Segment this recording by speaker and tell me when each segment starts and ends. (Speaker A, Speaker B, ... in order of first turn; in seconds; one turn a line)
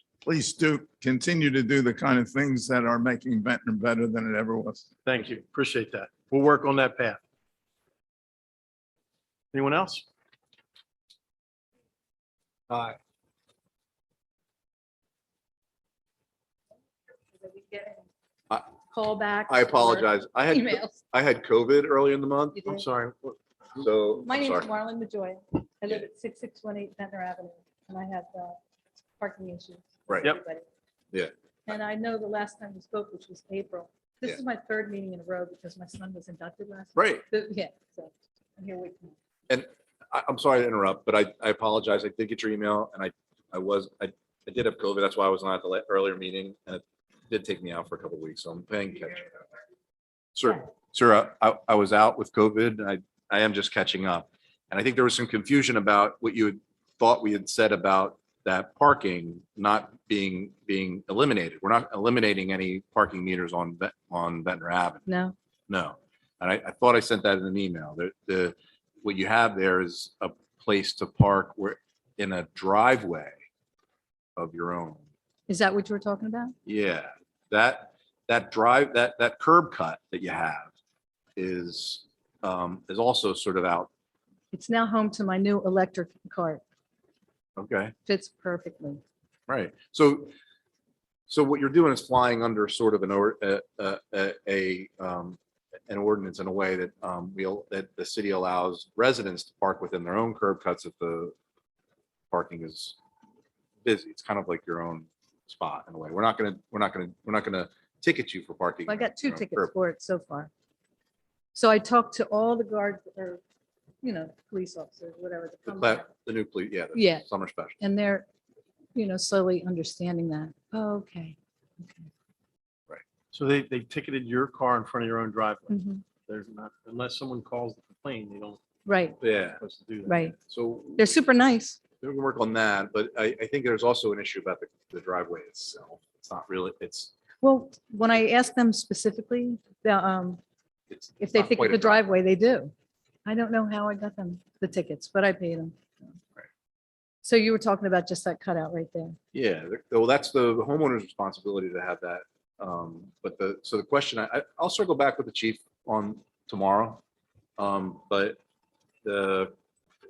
Speaker A: 0.2-4.8
Speaker B: 5.0-7.2
Speaker B: 9.5-10.1
Speaker C: 17.3-18.1
Speaker C: 18.8-21.0
Speaker D: 19.5-22.6
Speaker C: 22.5-22.8
Speaker B: 22.6-23.4
Speaker D: 23.8-24.7
Speaker C: 24.2-28.6
Speaker C: 29.2-30.6
Speaker C: 31.7-39.1
Speaker D: 37.0-37.2
Speaker D: 39.5-49.2
Speaker D: 50.3-65.0
Speaker C: 65.0-65.3
Speaker D: 65.7-73.4
Speaker D: 74.3-75.0
Speaker C: 75.5-76.5
Speaker D: 76.7-80.7
Speaker D: 81.3-83.9
Speaker C: 84.5-86.6
Speaker D: 87.6-87.9
Speaker C: 88.0-89.0
Speaker D: 89.5-90.3
Speaker D: 91.3-95.4
Speaker D: 95.9-101.3
Speaker D: 102.3-103.0
Speaker D: 103.8-109.7
Speaker C: 108.9-110.5
Speaker C: 111.5-113.4
Speaker C: 114.0-116.1
Speaker D: 115.7-117.8
Speaker C: 116.9-117.2
Speaker C: 117.8-118.2
Speaker C: 118.9-122.1
Speaker B: 123.3-128.6
Speaker C: 125.7-126.0
Speaker C: 128.8-129.2
Speaker D: 129.2-129.6
Speaker B: 129.3-130.3
Speaker C: 130.1-130.3
Speaker D: 130.5-131.2
Speaker C: 131.0-131.8
Speaker D: 132.0-137.1
Speaker C: 137.4-140.4
Speaker D: 140.9-142.1
Speaker C: 141.2-142.7
Speaker C: 143.2-145.8
Speaker C: 147.2-149.2
Speaker D: 149.3-157.0
Speaker D: 157.6-158.4
Speaker D: 159.0-159.5